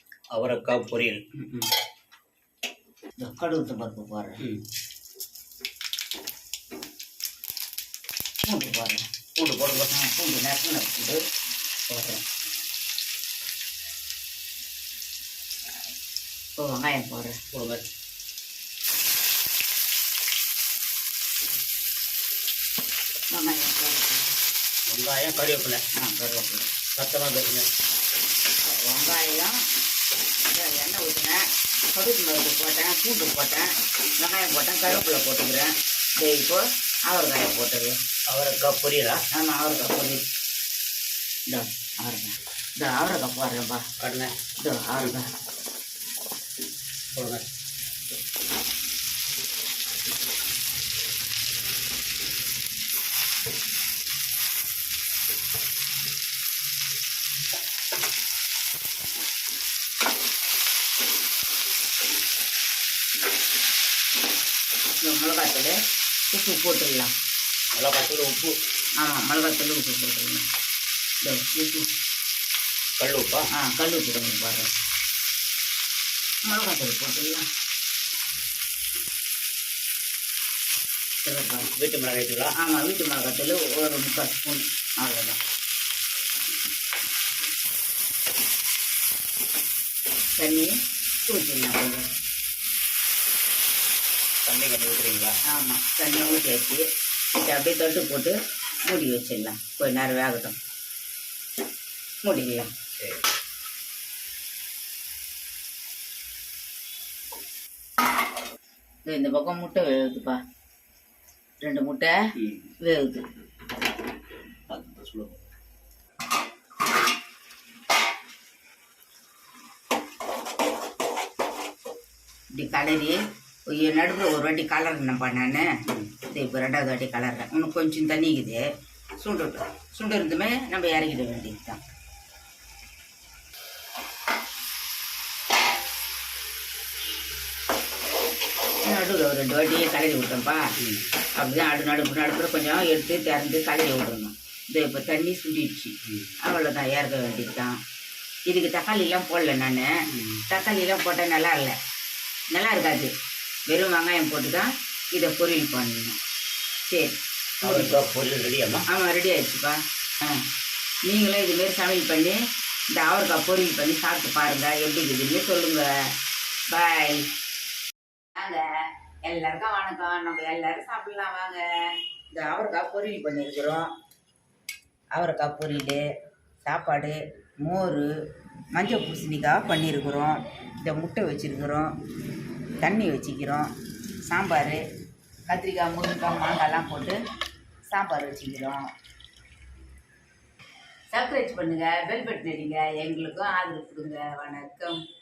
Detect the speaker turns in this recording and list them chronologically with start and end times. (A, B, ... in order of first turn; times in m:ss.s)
0:00.3-0:01.2 A
0:01.4-0:01.7 B
0:03.2-0:04.4 B
0:08.4-0:09.0 B
0:09.4-0:09.9 A
0:09.9-0:11.2 B
0:11.9-0:12.2 B
0:16.6-0:17.4 B
0:17.5-0:17.9 A
0:23.3-0:24.3 B
0:24.9-0:25.8 A
0:26.0-0:26.7 B
0:27.0-0:27.7 A
0:28.7-0:29.6 B
0:30.5-0:38.0 B
0:38.3-0:39.2 A
0:39.3-0:40.2 B
0:41.5-0:43.8 B
0:44.0-0:44.3 A
0:44.6-0:45.3 B
0:47.1-0:47.4 A
1:05.0-1:05.8 B
1:06.3-1:07.1 B
1:07.8-1:08.5 A
1:09.0-1:10.5 B
1:11.2-1:11.9 B
1:13.0-1:13.5 A
1:13.5-1:14.7 B
1:16.4-1:17.4 B
1:21.2-1:21.7 B
1:21.8-1:22.5 A
1:22.5-1:25.4 B
1:30.4-1:32.1 B
1:34.4-1:35.4 A
1:35.5-1:40.6 B
1:42.2-1:42.7 B
1:49.0-1:50.4 B
1:51.6-1:52.2 B
1:52.4-1:52.6 A
1:52.8-1:53.2 B
1:54.7-1:55.4 A
2:02.5-2:05.8 B
2:06.3-2:11.8 B
2:18.8-2:20.6 B
2:20.8-2:21.1 A
2:21.3-2:27.7 B
2:26.0-2:26.3 A
2:28.4-2:29.9 B
2:30.1-2:30.4 A
2:30.5-2:31.8 B
2:32.5-2:33.1 B
2:33.7-2:36.2 B
2:36.9-2:38.0 B
2:37.6-2:38.8 A
2:38.9-2:40.4 B
2:41.0-2:42.4 B
2:42.9-2:46.1 B
2:46.7-2:47.3 B
2:48.4-2:53.9 B
2:55.1-2:56.1 B
2:56.6-2:58.1 B
2:58.7-3:01.9 B
3:02.8-3:03.7 B
3:04.2-3:04.8 B
3:05.5-3:07.2 B
3:07.9-3:08.9 B
3:11.1-3:15.0 B